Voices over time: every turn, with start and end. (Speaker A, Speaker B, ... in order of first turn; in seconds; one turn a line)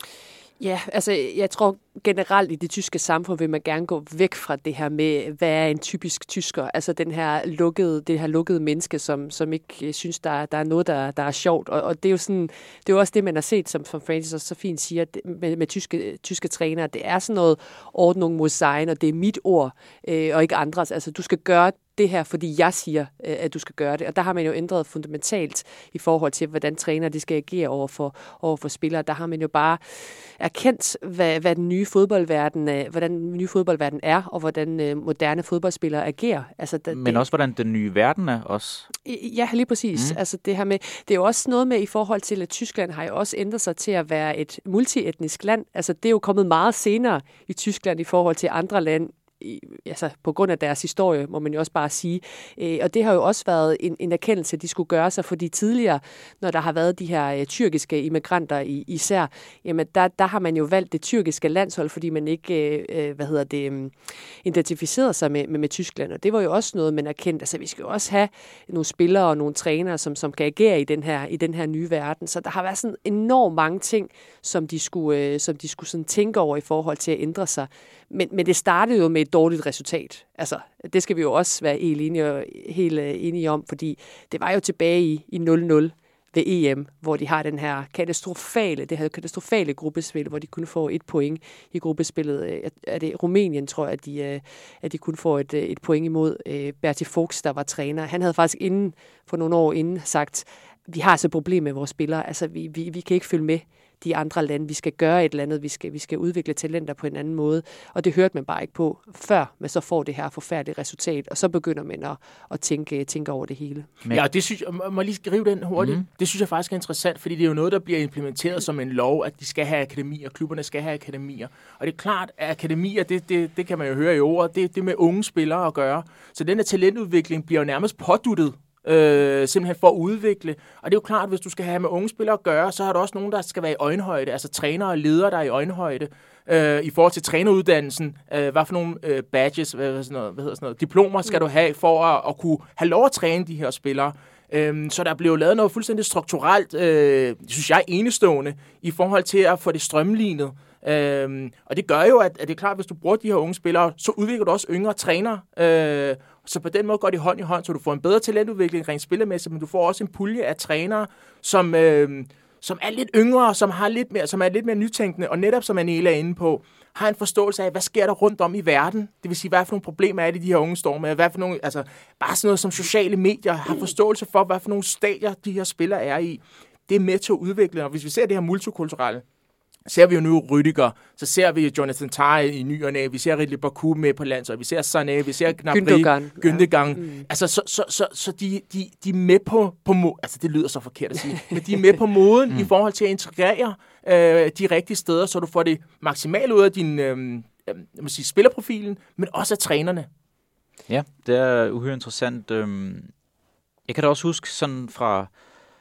Speaker A: 0.6-37.2
Speaker B: 36.9-38.9
Speaker A: 39.0-113.9
Speaker C: 114.1-179.2
Speaker B: 115.8-116.1
Speaker C: 179.9-200.1
Speaker A: 185.7-187.2
Speaker B: 200.9-203.1
Speaker B: 203.9-205.3